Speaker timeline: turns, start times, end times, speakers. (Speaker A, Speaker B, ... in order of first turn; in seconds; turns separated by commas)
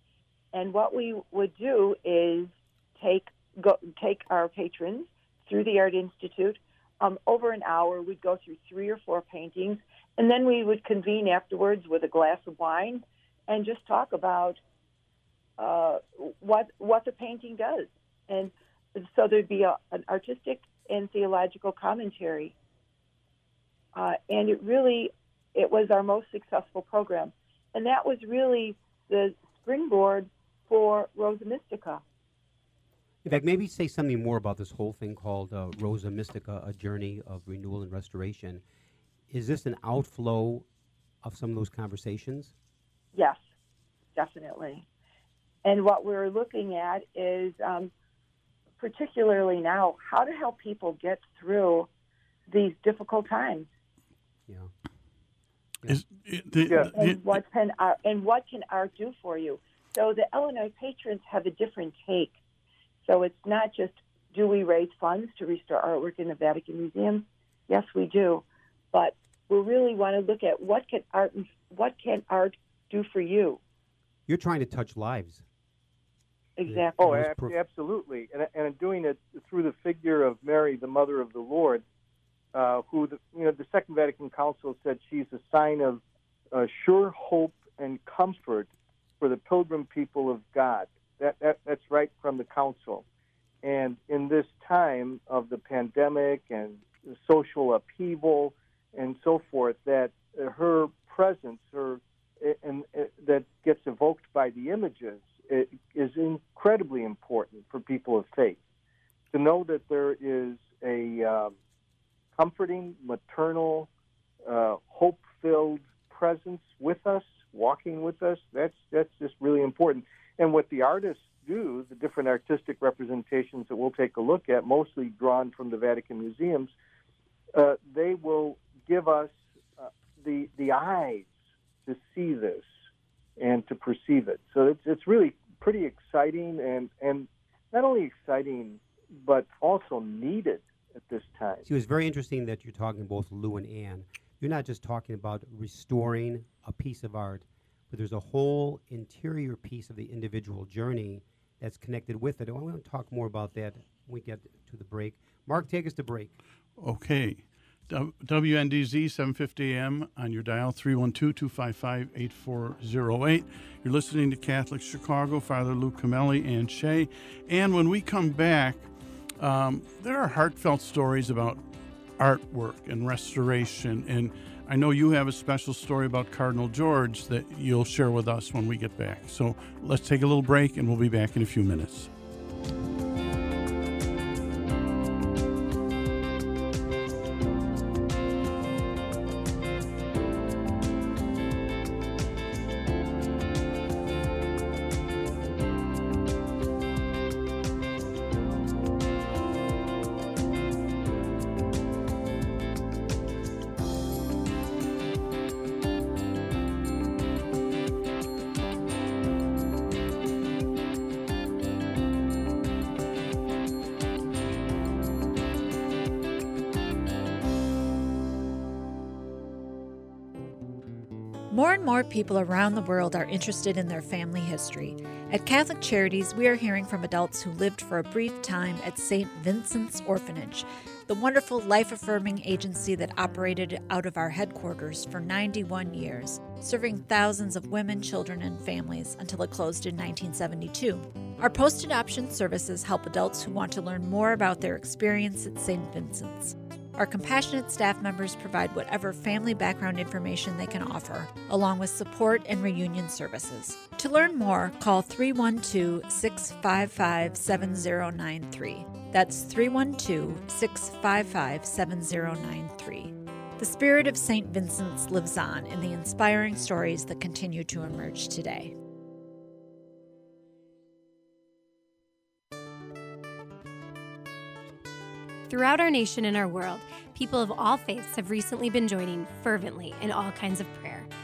Speaker A: 0.5-14.6, Speaker A: 15.6-22.5, Speaker A: 23.9-32.0, Speaker B: 33.2-38.6, Speaker B: 39.3-40.6, Speaker B: 41.2-42.5, Speaker A: 43.1-43.4, Speaker A: 44.1-44.9, Speaker A: 45.6-47.9, Speaker A: 48.8-51.9, Speaker A: 52.5-53.7, Speaker C: 55.9-57.2, Speaker D: 56.6-56.9, Speaker A: 56.9-62.4, Speaker A: 63.0-73.6, Speaker B: 74.3-75.4, Speaker A: 76.6-77.0, Speaker B: 76.7-77.6, Speaker D: 77.0-81.8, Speaker D: 82.5-93.0, Speaker D: 93.6-108.6, Speaker D: 109.3-111.5, Speaker D: 112.3-113.9, Speaker D: 114.4-126.7, Speaker D: 127.5-132.7, Speaker D: 133.4-141.7, Speaker B: 141.6-156.4, Speaker C: 156.8-171.6, Speaker C: 172.2-182.1, Speaker E: 221.5-268.7, Speaker F: 275.5-281.1